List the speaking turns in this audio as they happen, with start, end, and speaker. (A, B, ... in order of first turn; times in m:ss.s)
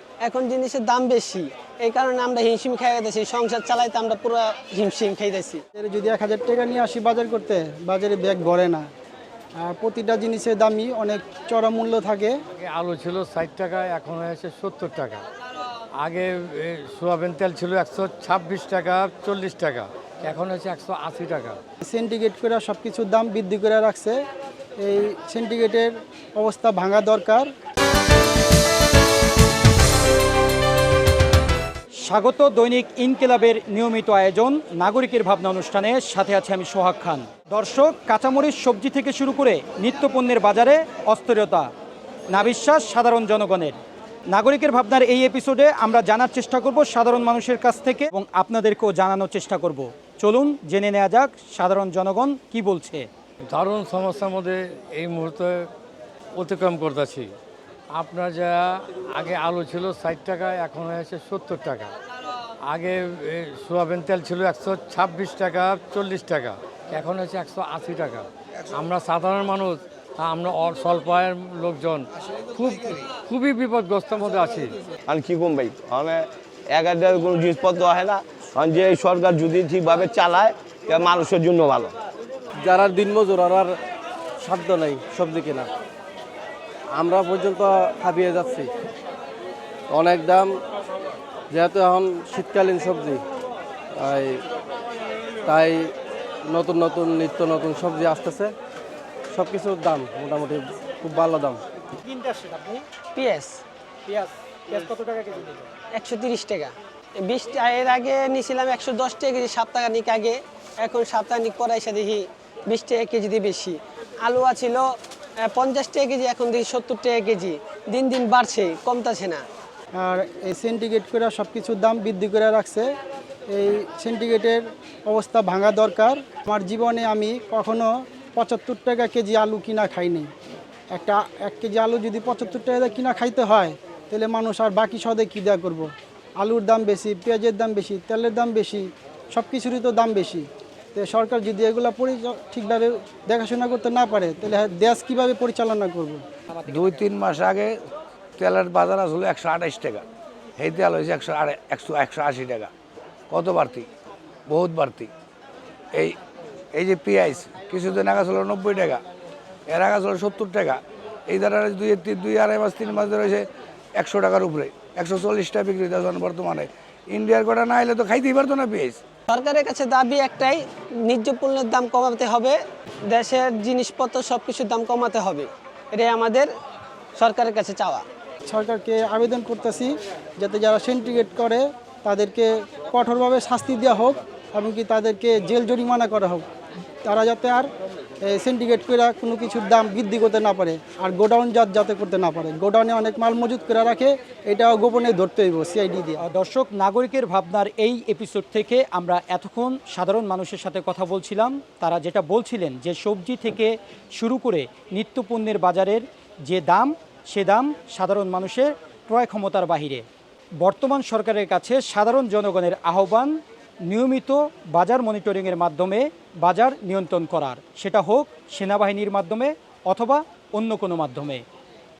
0:00.2-0:05.6 A
0:05.8-0:08.8 B
0:09.6-0:12.3 B
0:12.6-0:15.2 C
0:16.0-0:21.6 C
0:21.9-0:24.2 B
0:24.8-0:27.5 B
0:32.0-0:41.7 D
0:42.3-0:53.1 D
0:53.5-0:55.7 C
0:56.4-0:57.3 C
0:57.9-1:01.9 C
1:02.7-1:14.8 C
1:15.1-1:16.2 E
1:16.7-1:21.9 E
1:22.6-1:23.8 F
1:24.4-1:25.7 F
1:27.0-1:28.7 F
1:29.9-1:30.5 F
1:31.5-1:33.2 F
1:34.0-1:34.4 F
1:35.4-1:35.9 F
1:36.5-1:38.5 F
1:39.3-1:41.6 F
1:42.1-1:42.8 D
1:43.2-1:43.6 A
1:44.1-1:45.7 D
1:46.0-1:54.9 A
1:55.4-1:59.4 A
2:00.0-2:02.9 B
2:03.5-2:10.3 B
2:10.9-2:26.2 B
2:26.6-2:27.7 G
2:28.4-2:30.0 G
2:30.6-2:32.7 G
2:33.3-2:33.9 G
2:34.5-2:35.1 G
2:36.7-2:39.0 G
2:39.7-2:43.5 G
2:44.0-2:49.0 G
2:49.3-2:56.5 A
2:57.2-2:58.0 A
2:58.5-3:06.5 B
3:07.0-3:07.7 B
3:08.2-3:16.2 B
3:16.2-3:30.1 D
3:30.6-3:41.5 D